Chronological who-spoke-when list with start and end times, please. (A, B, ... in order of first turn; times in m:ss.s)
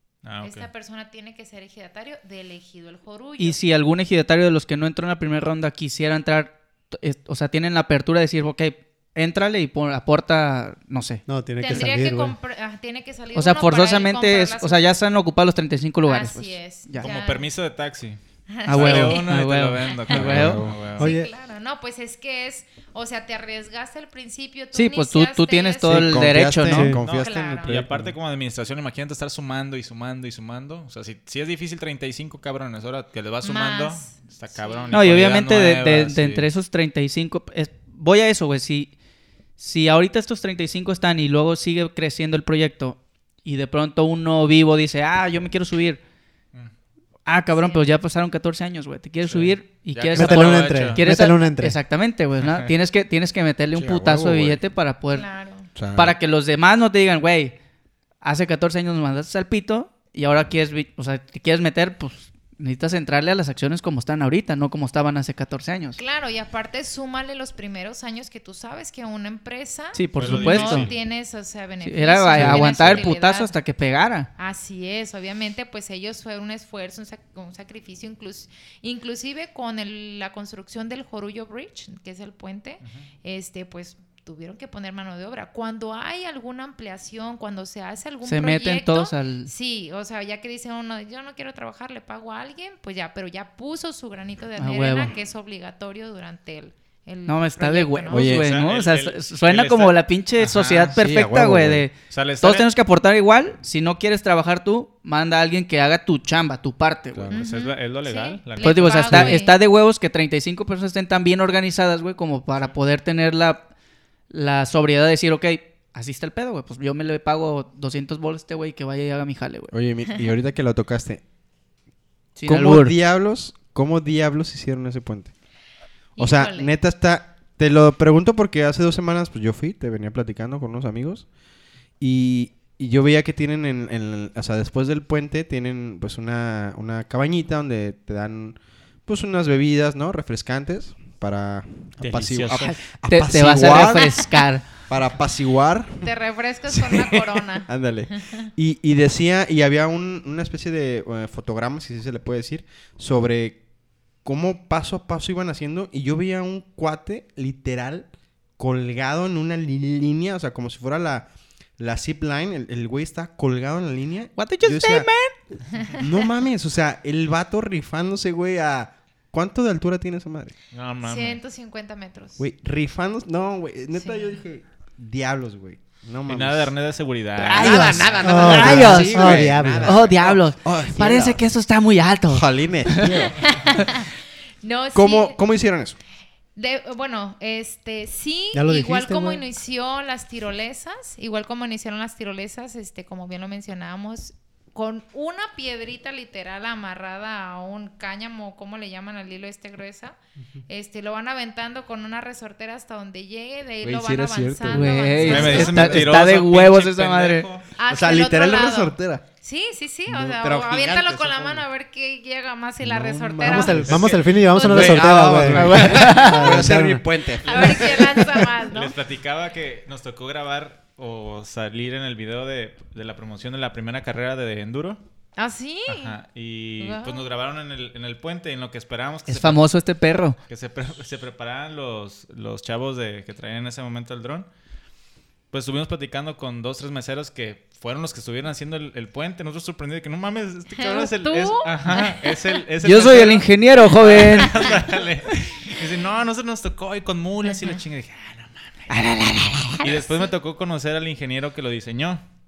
0:00.2-0:00.7 A
0:00.4-0:03.6 B
0:03.4-0:11.2 C
0:11.3-0:12.4 D
0:11.6-0:15.0 B
0:13.3-0:17.1 C
0:16.1-0:17.5 B
0:17.0-0:18.2 A
0:18.5-0:19.3 B
0:18.6-0:20.6 C
0:18.7-0:21.1 A
0:20.1-0:20.9 E
0:21.0-0:21.3 D
0:21.0-0:26.3 B
0:24.7-0:27.0 C
0:25.9-0:28.1 E
0:26.7-0:27.0 D
0:27.0-0:36.5 A
0:27.1-0:27.8 B
0:33.4-0:35.0 B
0:34.9-0:38.9 C
0:39.6-0:46.0 C
0:47.3-0:55.3 C
0:47.5-0:47.9 B
0:49.3-0:51.0 A
0:50.2-0:51.8 D
0:52.4-0:52.7 A
0:53.8-0:54.6 E
0:55.1-0:55.7 B
0:55.8-0:56.2 E
0:55.9-0:57.6 C
0:58.2-1:06.0 C
1:06.0-1:13.6 B
1:09.9-1:10.9 C
1:10.2-1:11.0 A
1:11.8-1:14.3 C
1:12.5-1:12.8 A
1:14.4-1:38.3 B
1:28.2-1:29.5 C
1:34.6-1:35.1 C
1:37.3-1:47.3 C
1:38.1-1:38.5 E
1:38.3-1:41.0 A
1:41.0-1:41.8 E
1:42.1-1:42.7 A
1:47.3-1:49.3 A
1:47.3-1:49.6 B
1:48.6-1:53.7 C
1:54.3-1:59.7 C
1:59.7-2:01.2 E
2:02.4-2:03.0 C
2:02.5-2:05.3 E
2:06.2-2:06.7 B
2:06.2-2:11.3 E
2:12.0-2:24.1 E
2:22.0-2:22.7 A
2:22.6-2:24.6 C
2:24.9-2:26.1 E
2:26.0-2:28.5 B
2:26.7-2:33.6 E
2:34.2-2:38.1 E
2:38.6-2:45.1 E
2:44.4-2:45.4 C
2:45.8-2:46.0 B
2:46.0-2:50.5 E
2:50.7-2:51.4 A
2:51.0-2:52.4 B
2:52.4-2:56.7 E
2:53.9-2:54.4 B
2:56.3-2:58.2 A
2:57.4-3:01.4 E
2:57.4-3:03.3 C
2:58.2-3:00.0 D
3:02.3-3:03.4 E
3:03.4-3:04.1 B
3:04.6-3:05.4 B
3:04.9-3:06.0 E
3:06.6-3:20.2 B
3:08.5-3:09.4 D
3:20.7-3:26.0 B
3:23.8-3:26.1 E
3:24.7-3:27.5 C
3:25.2-3:27.7 A
3:27.8-3:35.4 B
3:27.9-3:29.2 E
3:30.1-3:31.6 E
3:32.8-3:38.5 E
3:33.4-3:37.0 D
3:33.9-3:34.1 A
3:35.5-3:36.6 C
3:37.4-3:39.0 B
3:38.7-3:45.0 A
3:45.4-3:46.2 B
3:45.9-3:49.6 A
3:46.8-3:47.2 B
3:49.3-3:50.4 C
3:50.5-3:54.5 A
3:55.5-4:08.9 A
4:00.8-4:02.2 B
4:02.8-4:04.6 C
4:08.9-4:09.9 C
4:09.8-4:10.1 B
4:09.8-4:12.2 A